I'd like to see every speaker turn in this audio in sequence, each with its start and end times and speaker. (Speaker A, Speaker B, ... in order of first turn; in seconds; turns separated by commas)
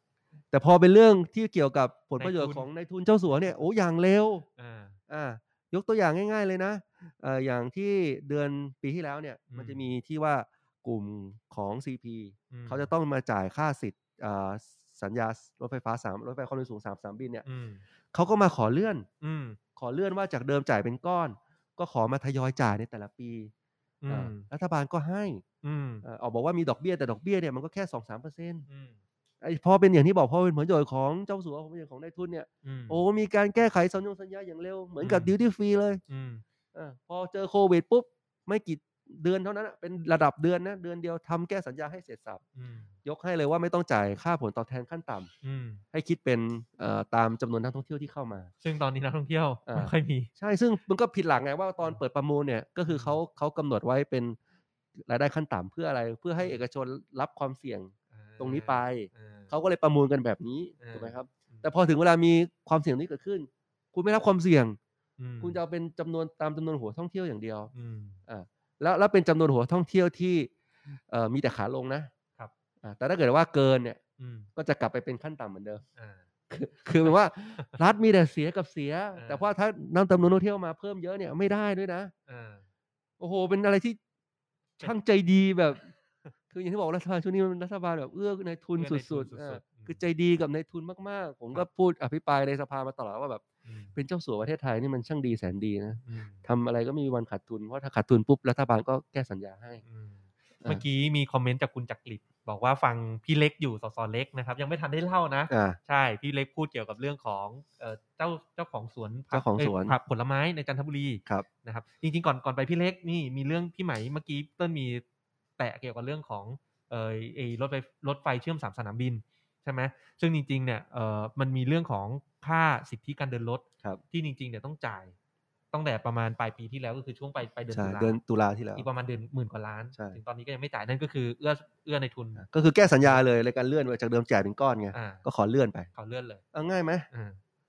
Speaker A: 0.5-4.5, Speaker B: 2.2-2.7, Speaker B: 4.6-5.0, Speaker A: 5.1-17.4, Speaker B: 9.5-9.9, Speaker B: 12.5-12.9, Speaker B: 17.4-17.8, Speaker A: 18.1-19.1, Speaker B: 19.2-19.6, Speaker A: 19.8-23.5, Speaker B: 24.0-24.5, Speaker A: 24.1-25.4, Speaker B: 25.6-26.0, Speaker A: 26.0-28.6, Speaker B: 28.7-29.0, Speaker A: 29.4-36.0, Speaker B: 32.6-33.0, Speaker B: 35.0-35.3, Speaker B: 36.1-36.4, Speaker A: 36.7-42.4, Speaker B: 42.5-42.9, Speaker A: 43.0-45.3, Speaker B: 45.4-45.8, Speaker A: 45.9-48.5, Speaker B: 48.6-50.3, Speaker A: 49.6-54.4, Speaker B: 52.9-53.2, Speaker A: 55.0-64.8, Speaker B: 58.1-59.5, Speaker B: 60.8-61.7, Speaker B: 65.2-65.6, Speaker A: 65.4-67.7, Speaker B: 67.7-68.2, Speaker A: 68.3-72.1, Speaker A: 72.8-74.0, Speaker B: 74.2-74.5, Speaker A: 74.5-75.8, Speaker B: 76.0-76.2, Speaker A: 76.5-82.1, Speaker B: 77.0-77.8, Speaker B: 79.1-79.5, Speaker B: 82.3-82.7, Speaker A: 83.2-84.0, Speaker A: 84.8-85.9, Speaker A: 86.5-93.4, Speaker B: 88.8-90.0, Speaker B: 93.7-94.0, Speaker A: 93.9-99.8, Speaker B: 96.0-96.5, Speaker B: 99.8-115.0, Speaker A: 105.5-105.8, Speaker A: 109.3-109.9, Speaker B: 115.6-125.1, Speaker B: 125.7-128.2, Speaker A: 127.7-128.8, Speaker B: 128.8-132.4, Speaker A: 132.4-135.9, Speaker B: 134.9-135.2, Speaker B: 135.9-136.4, Speaker A: 136.5-137.1, Speaker B: 137.1-137.4